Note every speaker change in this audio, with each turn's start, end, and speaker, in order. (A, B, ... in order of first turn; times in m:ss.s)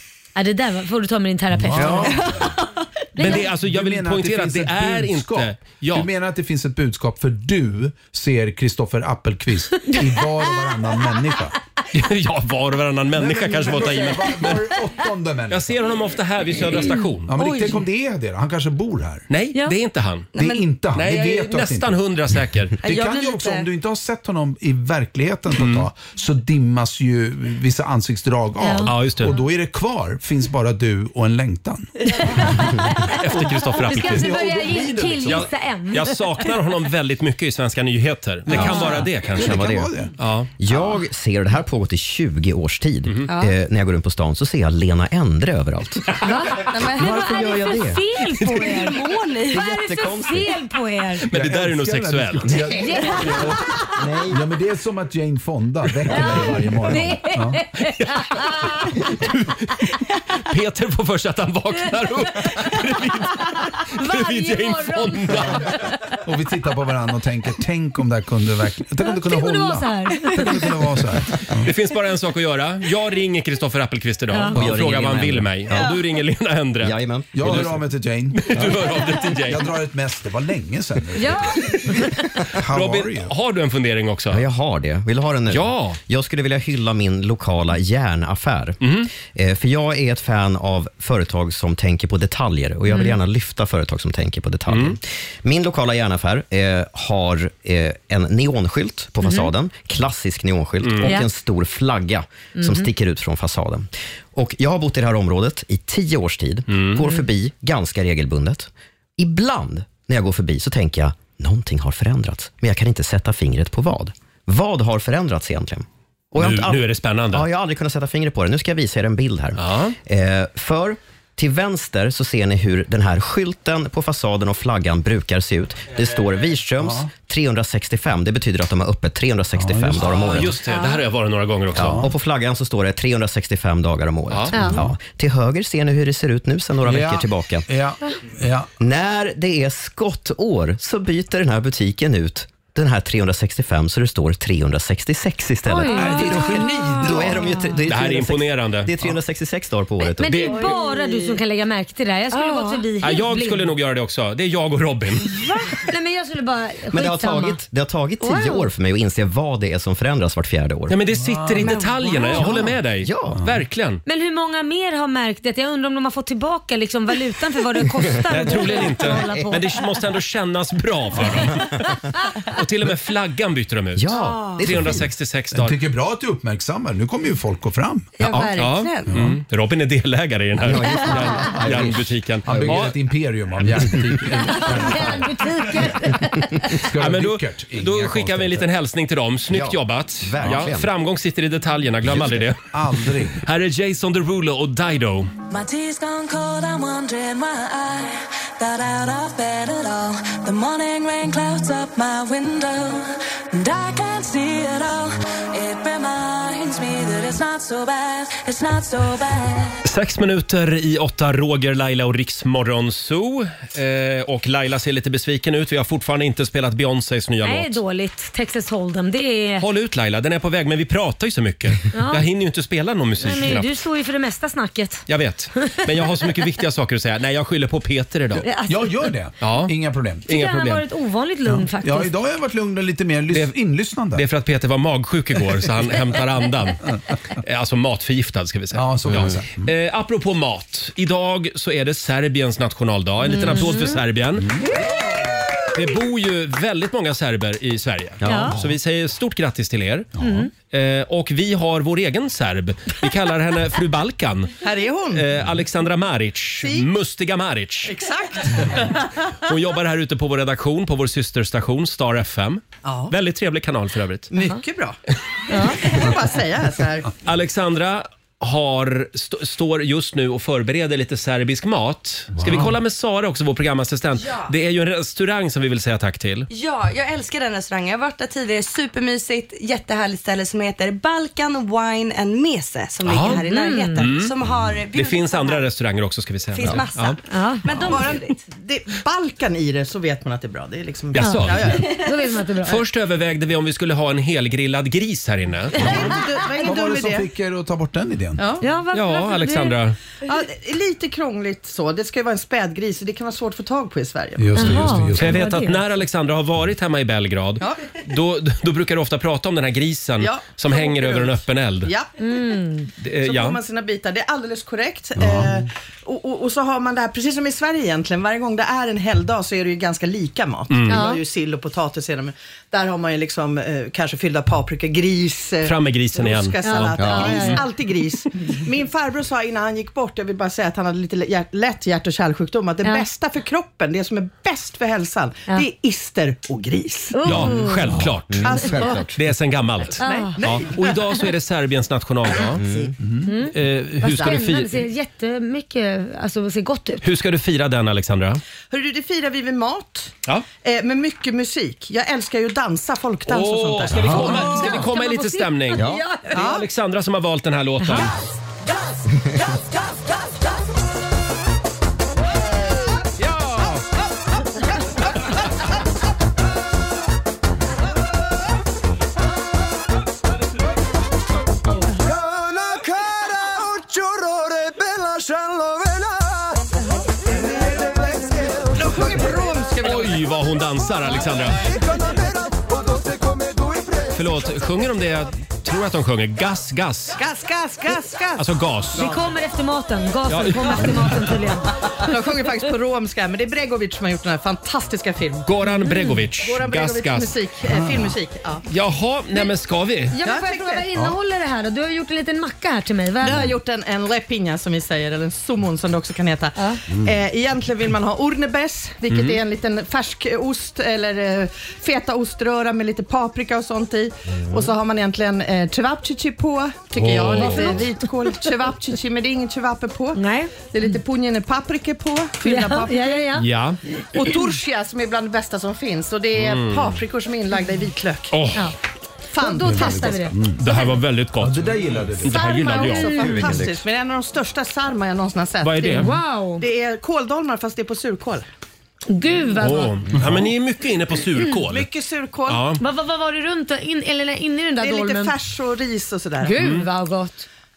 0:00.4-0:02.3 A
0:01.5-0:02.5 B
0:01.7-0:02.2 C
0:02.0-0:02.7 D
0:03.2-0:06.1 E
0:03.2-0:11.6 B
0:11.9-0:14.6 E
0:13.1-0:15.9 B
0:15.5-0:17.3 E
0:17.3-0:19.2 B
0:17.4-0:17.8 D
0:19.3-0:20.3 E
0:20.3-0:20.6 D
0:20.4-0:22.0 B
0:21.0-0:22.8 E
0:22.8-0:31.9 B
0:22.8-0:23.7 D
0:25.6-0:25.9 E
0:28.6-0:28.9 A
0:28.8-0:29.4 E
0:32.2-0:33.2 A
0:33.1-0:34.4 E
0:33.4-0:35.5 B
0:33.8-0:36.4 A
0:35.2-0:39.6 E
0:38.5-0:40.1 B
0:38.5-0:39.9 C
0:38.6-0:39.0 A
0:40.2-0:40.5 E
0:40.6-0:46.1 C
0:43.3-0:43.5 D
0:46.2-0:51.3 A
0:46.6-0:47.5 D
0:46.8-0:48.6 C
0:48.4-0:50.1 D
0:49.5-0:50.5 C
0:51.2-0:57.6 B
0:51.3-0:52.6 E
0:52.4-0:52.8 C
0:52.8-0:53.8 A
0:54.0-0:54.4 C
0:56.1-0:59.1 A
0:57.8-1:05.7 E
1:04.0-1:06.2 A
1:06.2-1:11.7 B
1:09.1-1:10.7 A
1:11.6-1:17.7 E
1:14.3-1:14.6 A
1:14.5-1:16.0 C
1:16.8-1:17.8 C
1:17.3-1:18.7 B
1:18.3-1:19.6 E
1:18.5-1:18.8 C
1:19.4-1:23.3 B
1:21.2-1:22.2 A
1:22.7-1:24.4 E
1:24.3-2:10.5 C
1:25.5-1:26.0 E
1:28.8-1:29.1 E
1:32.9-1:33.2 A
1:34.7-1:35.0 E
1:40.8-1:41.2 E
1:42.6-1:42.9 A
1:46.7-1:47.0 E
1:56.4-1:57.5 E
1:59.6-2:00.0 E
2:06.8-2:07.1 B
2:09.6-2:10.4 B
2:10.0-2:12.0 E
2:10.7-2:11.0 A
2:11.8-2:12.1 B
2:11.8-2:17.7 C
2:14.3-2:14.7 E
2:14.6-2:14.9 B
2:16.8-2:18.7 B
2:18.8-2:30.5 C
2:25.7-2:27.0 A
2:25.9-2:27.4 B
2:27.9-2:29.1 E
2:30.0-2:33.7 A
2:30.2-2:30.6 E
2:30.6-2:31.4 D
2:32.3-2:32.8 D
2:33.0-2:35.4 E
2:35.3-2:37.6 A
2:36.9-2:41.0 C
2:38.2-2:38.7 A
2:40.9-2:44.0 E
2:41.2-2:41.7 B
2:41.7-2:42.4 D
2:42.3-2:43.4 C
2:44.1-2:49.8 A
2:48.3-2:51.8 E
2:49.2-2:49.5 C
2:52.5-2:55.8 E
2:54.0-2:55.1 C
2:55.5-2:58.2 B
2:58.2-2:59.1 D
2:58.6-3:03.0 E
2:59.1-2:59.4 B
3:00.6-3:02.9 C
3:01.7-3:06.0 B
3:03.6-3:05.0 C
3:04.5-3:06.8 A
3:06.7-3:08.7 B
3:06.9-3:15.3 E
3:09.5-3:10.9 C
3:12.7-3:13.4 B
3:15.5-3:29.8 F
3:29.8-3:37.8 E
3:37.4-3:39.7 A
3:39.6-3:43.7 E
3:41.9-3:42.3 A
3:43.2-3:45.1 A
3:45.1-3:48.5 E
3:45.6-3:46.1 A
3:48.4-3:49.0 A
3:48.6-3:50.3 B
3:49.4-3:49.7 E
3:50.3-3:50.8 E
3:50.3-3:52.1 A
3:51.4-3:54.3 B
3:54.1-3:56.8 E
3:57.4-4:04.5 E
3:58.7-3:59.7 B
3:59.1-3:59.4 C
4:03.3-4:04.0 A
4:05.7-4:10.1 E
4:08.2-4:08.6 C
4:08.2-4:08.6 A
4:10.2-4:10.5 B
4:10.2-4:10.5 A
4:10.7-4:14.6 E
4:14.6-4:15.3 G
4:15.1-4:17.9 E
4:16.6-4:16.9 G
4:17.9-4:19.1 G
4:19.4-4:24.3 E
4:22.8-4:23.1 G
4:24.3-4:25.0 G
4:25.5-4:26.0 A
4:25.5-4:27.1 G
4:27.2-4:36.5 E
4:32.4-4:32.7 B
4:36.5-4:45.7 D
4:43.1-4:43.4 E
4:43.3-4:44.0 A
4:44.0-4:44.3 E
4:44.9-4:47.2 E
4:46.5-4:48.4 D
4:47.3-4:47.7 A
4:47.8-4:51.9 G
4:51.1-4:51.9 E
4:51.2-4:52.8 A
4:52.6-4:55.9 E
4:55.8-4:57.3 G
4:55.8-4:58.4 B
4:58.4-4:58.6 G
4:58.6-4:59.8 A
4:58.9-5:00.0 E
5:00.2-5:04.6 G
5:04.4-5:05.5 B
5:04.6-5:05.8 A
5:05.1-5:11.9 E
5:10.2-5:12.2 G
5:12.2-5:12.9 A
5:13.0-5:13.6 E
5:13.2-5:37.4 G
5:15.2-5:15.5 B
5:20.7-5:21.0 E
5:20.9-5:21.2 A
5:25.6-5:27.6 E
5:26.6-5:27.7 A
5:27.0-5:27.4 C
5:37.1-5:38.0 A
5:37.2-5:42.7 E
5:38.3-5:39.2 C
5:38.4-5:39.1 G
5:40.0-5:40.4 A
5:40.0-5:40.6 G
5:42.6-5:43.0 C
5:43.0-5:43.3 B
5:43.3-5:47.0 A
5:43.5-5:44.8 E
5:47.0-5:48.4 E
5:48.7-5:54.6 G
5:53.3-5:58.2 E
5:53.9-5:54.4 B
5:54.1-5:56.5 A
5:55.8-5:56.0 C
5:56.3-5:56.6 G
5:57.8-5:58.1 A
6:12.2-6:14.0 G
6:18.3-6:20.2 G
6:19.8-6:21.7 E
6:24.1-6:27.2 E
6:27.2-6:28.5 G
6:28.4-6:29.2 E
6:28.9-6:32.2 A
6:30.3-6:31.2 E
6:32.0-6:35.5 G
6:35.5-6:37.4 E
6:35.6-6:36.3 A
6:36.4-6:38.6 G
6:37.7-6:38.2 B
6:38.7-6:40.2 E
6:40.1-6:43.5 A
6:40.2-6:40.9 G
6:43.2-7:03.3 G
6:43.2-6:43.5 B
6:46.9-6:47.2 B
6:49.1-6:49.4 E
6:57.0-6:57.9 E
6:57.2-6:58.5 A
7:00.2-7:01.0 A
7:02.4-7:03.5 A
7:03.3-7:03.8 E
7:04.1-7:08.4 G
7:06.4-7:07.0 E
7:08.3-7:08.7 E
7:09.3-7:10.3 G
7:09.3-7:10.4 A
7:09.6-7:10.6 B
7:10.6-7:13.6 E
7:11.4-7:12.5 B
7:12.3-7:18.4 G
7:12.7-7:13.6 A
7:13.2-7:13.8 C
7:15.6-7:16.1 E
7:15.9-7:16.6 A
7:19.1-7:20.0 A
7:19.6-7:21.9 E
7:20.1-7:20.4 B
7:21.7-7:22.6 G
7:22.5-7:22.8 E
7:22.8-7:25.4 A
7:24.8-7:26.7 G
7:26.4-7:27.5 A
7:26.6-7:26.9 E